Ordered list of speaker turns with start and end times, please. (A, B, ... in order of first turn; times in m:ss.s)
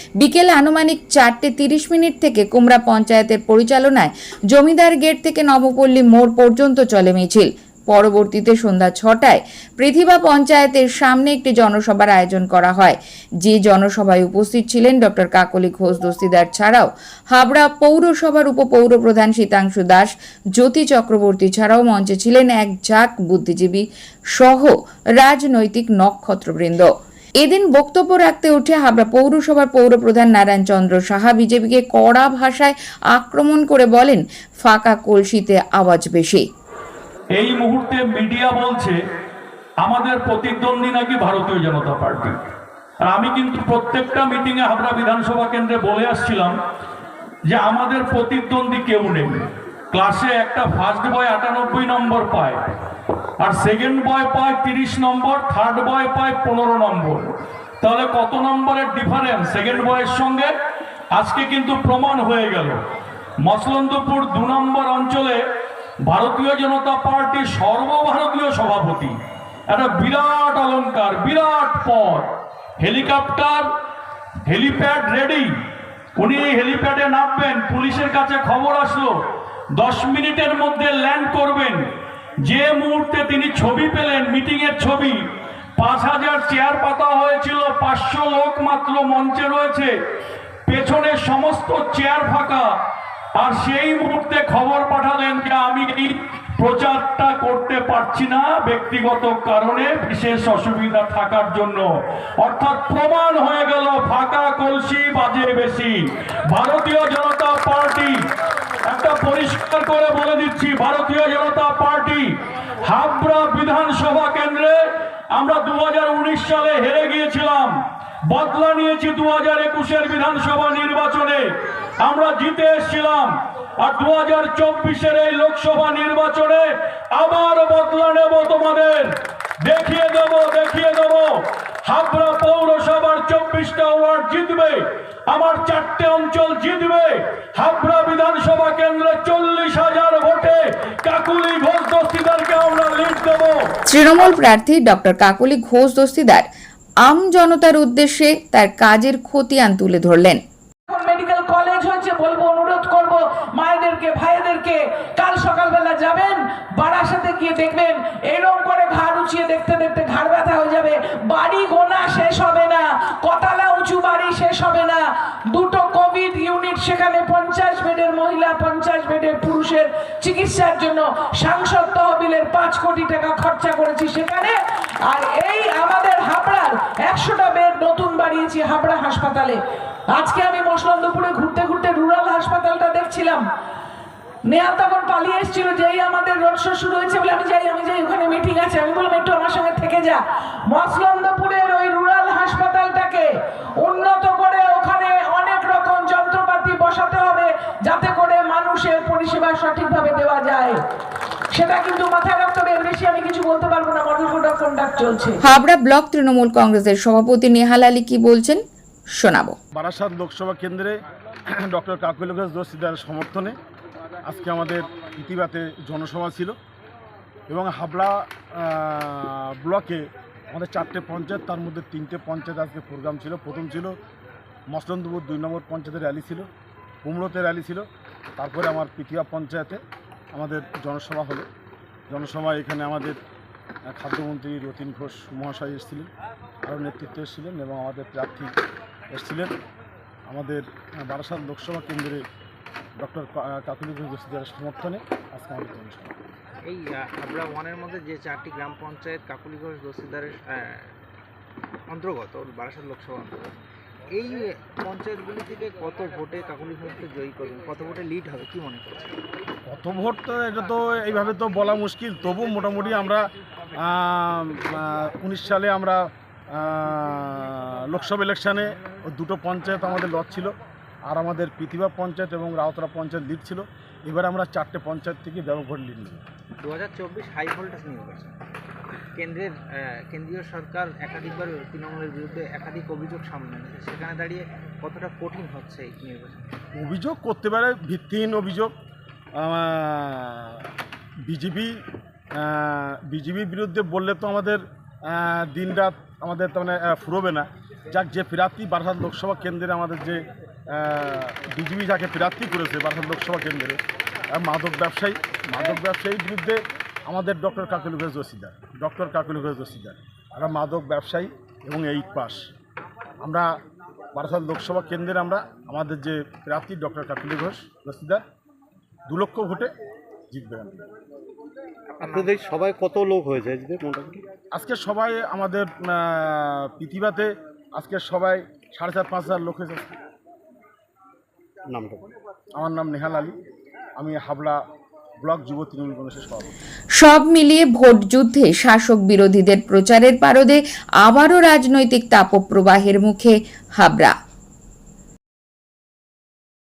0:00.2-0:36.4 A
0:37.4-0:39.0 B
0:39.8-0:42.4 B
0:43.1-0:46.5 B
0:47.5-0:52.6 B
0:53.4-0:57.3 B
0:57.8-1:00.5 B
1:01.1-1:02.8 B
1:03.4-1:05.4 B
1:06.1-1:09.1 B
1:09.7-1:12.3 B
1:12.8-1:13.7 B
1:14.5-1:15.5 B
1:16.2-1:19.1 B
1:19.8-1:21.8 B
1:22.4-1:25.2 B
1:25.8-1:29.9 B
1:30.7-1:32.7 B
1:33.4-1:41.8 B
1:42.4-1:46.0 B
1:46.5-1:48.2 B
1:48.9-1:52.3 B
1:52.8-1:54.8 B
1:55.3-1:57.8 B
1:58.3-2:01.4 B
2:02.0-2:09.1 B
2:09.6-2:23.6 B
2:23.9-2:26.5 A
2:27.0-2:30.4 A
2:30.9-2:54.6 C
2:55.1-2:59.6 C
3:00.1-3:03.4 C
3:04.5-3:13.3 C
3:13.8-3:20.8 C
3:21.5-3:25.4 C
3:25.4-3:28.6 A
3:29.2-3:29.6 A
3:29.7-3:31.0 D
3:31.5-3:33.6 D
3:34.3-3:36.6 D
3:37.5-3:44.0 D
3:44.7-3:46.5 D
3:47.0-3:49.8 D
3:50.3-3:51.5 D
3:52.1-3:53.2 D
3:53.9-3:56.1 D
3:56.7-3:58.5 D
3:59.1-3:59.5 D
4:00.3-4:02.2 D
4:03.0-4:06.2 D
4:06.6-4:10.9 E
4:11.9-4:19.2 E
4:19.7-4:30.5 D
4:31.1-4:36.2 D
4:36.6-4:38.4 E
4:39.2-4:46.5 E
4:46.7-4:48.7 D
4:49.4-4:50.7 D
4:51.3-4:51.8 D
4:52.4-5:03.8 D
5:04.3-5:12.5 D
5:13.2-5:13.5 D
5:14.2-5:18.2 D
5:19.1-5:19.7 D
5:20.3-5:20.8 D
5:21.9-5:22.5 E
5:22.0-5:24.2 F
5:24.5-5:30.0 D
5:31.7-5:32.0 F
5:32.6-5:33.4 D
5:34.0-5:34.6 D
5:35.2-5:36.6 D
5:37.0-5:44.2 A